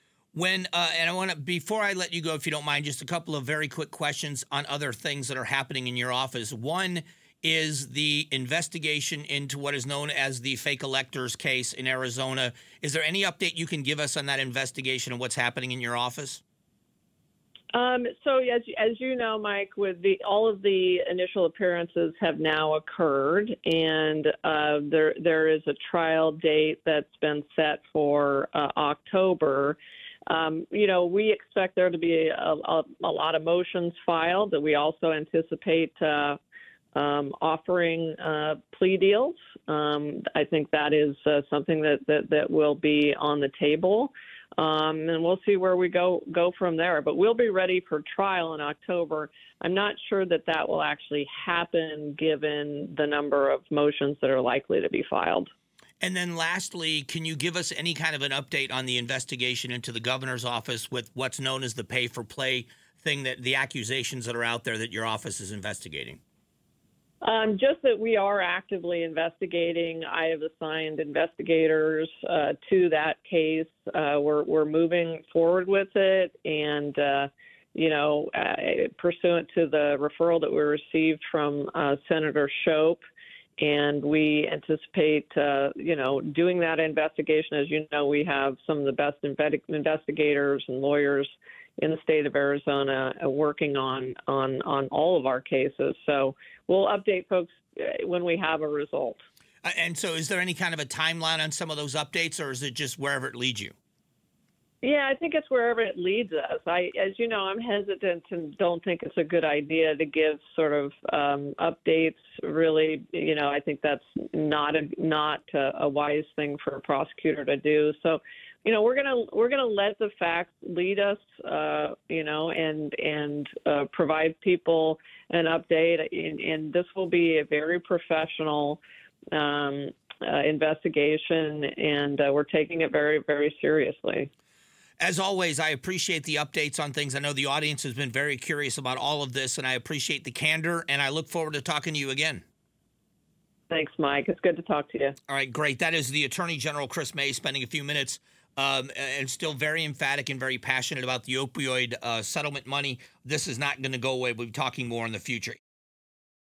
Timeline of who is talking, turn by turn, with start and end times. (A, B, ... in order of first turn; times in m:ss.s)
0:00.3-0:16.4 A
0:17.7-0:29.8 B
0:30.3-0:36.4 B
0:36.9-0:55.5 B
0:56.0-1:06.2 A
1:07.2-1:23.0 B
1:23.6-1:39.2 B
1:39.6-1:43.7 A
1:44.8-2:08.8 B
2:09.3-2:14.3 B
2:15.0-2:22.4 A
2:23.7-2:25.1 B
2:25.3-2:35.6 A